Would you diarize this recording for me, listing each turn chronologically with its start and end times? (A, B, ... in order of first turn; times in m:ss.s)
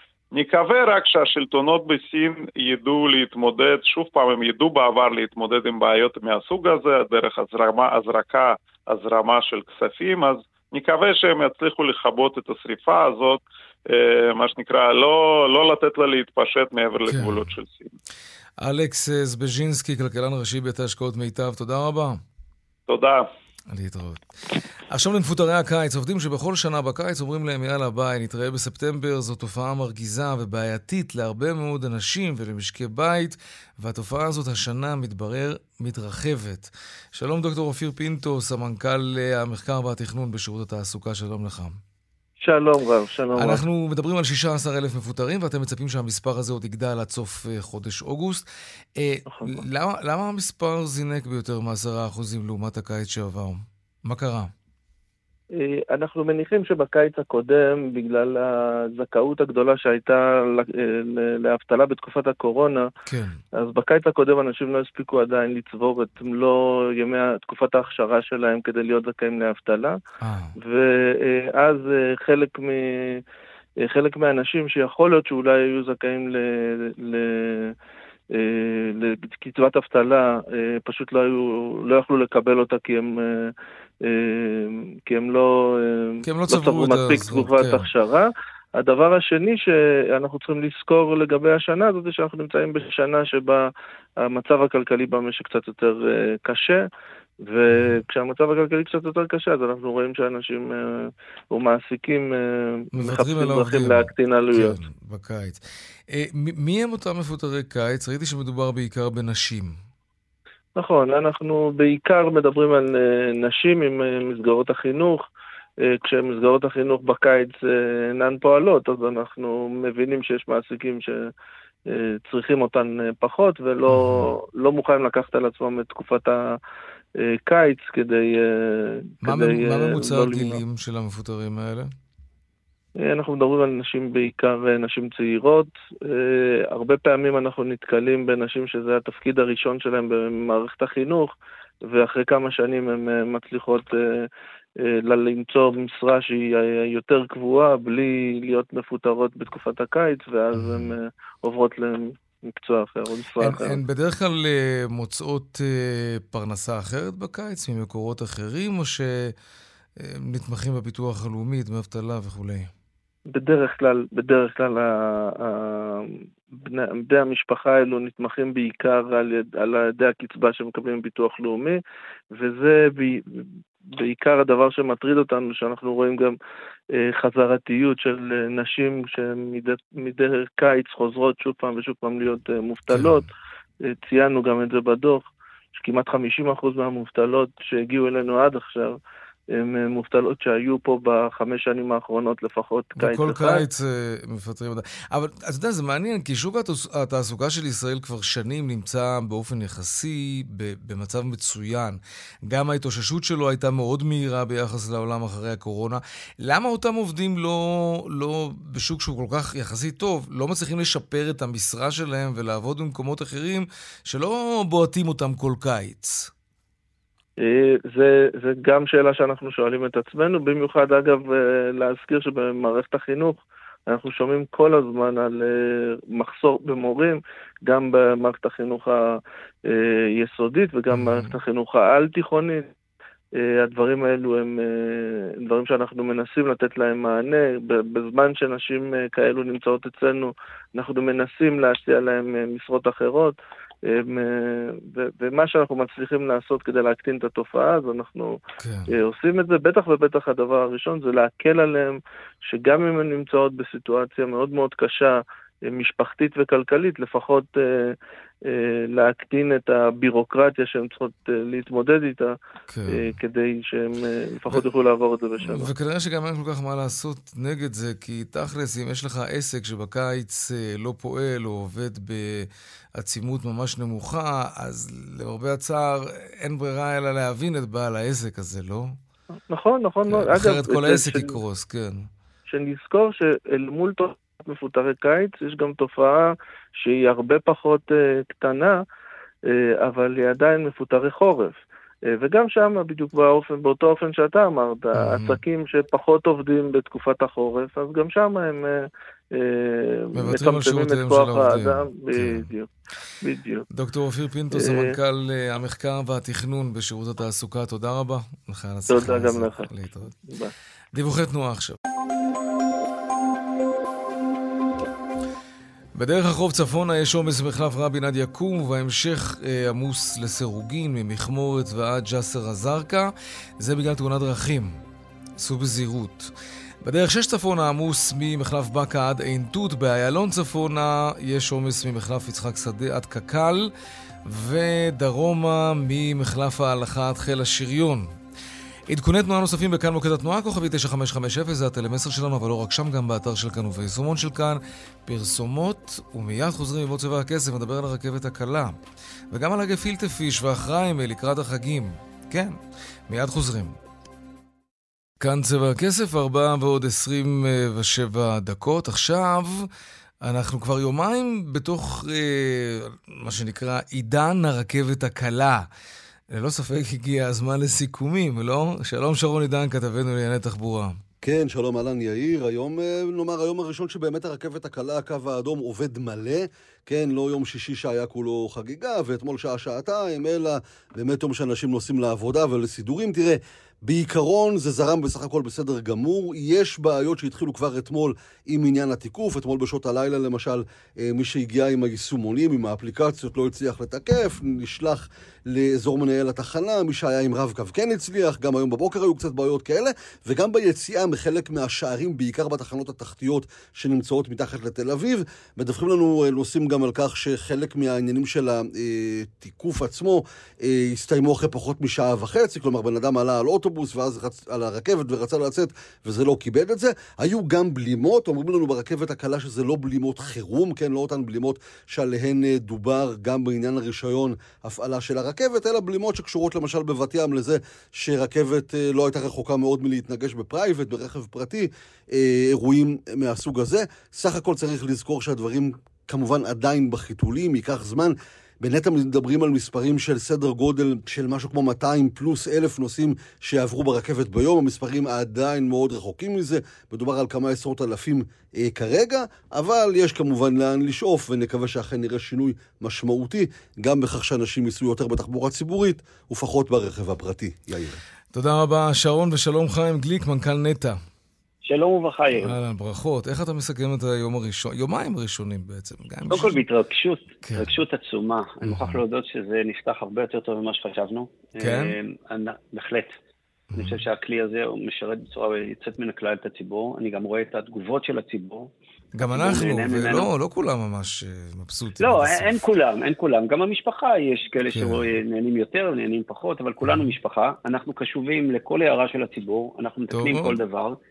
0:00.3-0:17.9 A
0:17.0-0:17.5 B
0:18.6-0:22.2 B
0:22.9-0:23.3 A
0:23.7-0:24.3 B
0:24.9-0:41.8 B
0:42.4-0:43.6 C
0:43.4-0:48.4 B
0:49.0-0:54.5 B
0:49.3-0:49.6 C
0:55.6-1:02.9 C
1:03.1-1:03.4 B
1:03.6-1:10.0 C
1:10.2-1:10.5 B
1:10.6-1:13.2 C
1:13.8-1:17.7 C
1:18.3-1:33.7 C
1:26.2-1:27.9 B
1:34.2-1:36.8 C
1:37.4-1:44.8 C
1:37.7-1:38.0 B
1:42.9-1:49.8 B
1:50.8-1:55.2 C
1:55.8-2:01.3 C
2:01.9-2:06.4 C
2:03.9-2:04.3 B
2:07.2-2:10.6 C
2:09.2-2:11.9 B
2:13.0-2:21.3 C
2:21.8-2:24.3 C
2:24.8-2:33.8 C
2:30.5-2:30.9 B
2:33.4-2:39.3 B
2:40.0-2:42.7 B
2:43.3-2:51.8 C
2:52.3-2:53.2 C
2:53.9-2:56.3 C
2:56.9-3:03.3 C
3:02.9-3:03.2 B
3:03.8-3:09.0 C
3:09.5-3:13.6 C
3:13.0-3:36.3 B
3:37.4-3:52.7 C
3:50.9-3:51.3 B
3:53.4-4:08.4 C
4:08.6-4:08.9 B
4:08.9-4:15.1 C
4:15.7-4:17.9 C
4:18.5-4:22.3 C
4:22.7-4:23.1 B
4:22.9-4:25.7 C
4:25.4-4:38.9 B
4:39.5-4:41.4 C
4:40.1-4:42.1 B
4:42.5-4:48.8 C
4:49.5-5:02.7 C
4:54.9-4:55.4 B
5:00.2-5:02.5 B
5:03.2-5:03.6 C
5:03.7-5:10.1 B
5:04.5-5:04.9 C
5:08.9-5:09.7 C
5:10.2-5:10.5 C
5:10.9-5:11.8 B
5:15.9-5:24.8 B
5:25.4-5:26.3 B
5:26.8-5:33.7 B
5:34.2-5:38.1 B
5:38.9-5:48.7 B
5:49.3-5:52.6 B
5:53.1-5:53.8 B
5:55.2-5:59.7 B
6:00.2-6:05.6 B
6:06.3-6:10.9 B
6:11.2-7:38.0 D
7:38.3-7:41.0 B
7:41.6-7:42.5 E
7:42.4-7:46.6 B
7:46.3-7:53.2 E
7:47.4-7:47.7 B
7:48.6-7:49.0 B
7:51.6-7:52.0 B
7:53.7-7:54.0 B
7:53.8-7:58.7 E
7:59.1-8:02.5 B
7:59.2-8:00.3 E
8:02.0-8:11.0 E
8:04.7-8:05.1 B
8:06.8-8:07.1 B
8:10.1-8:10.6 B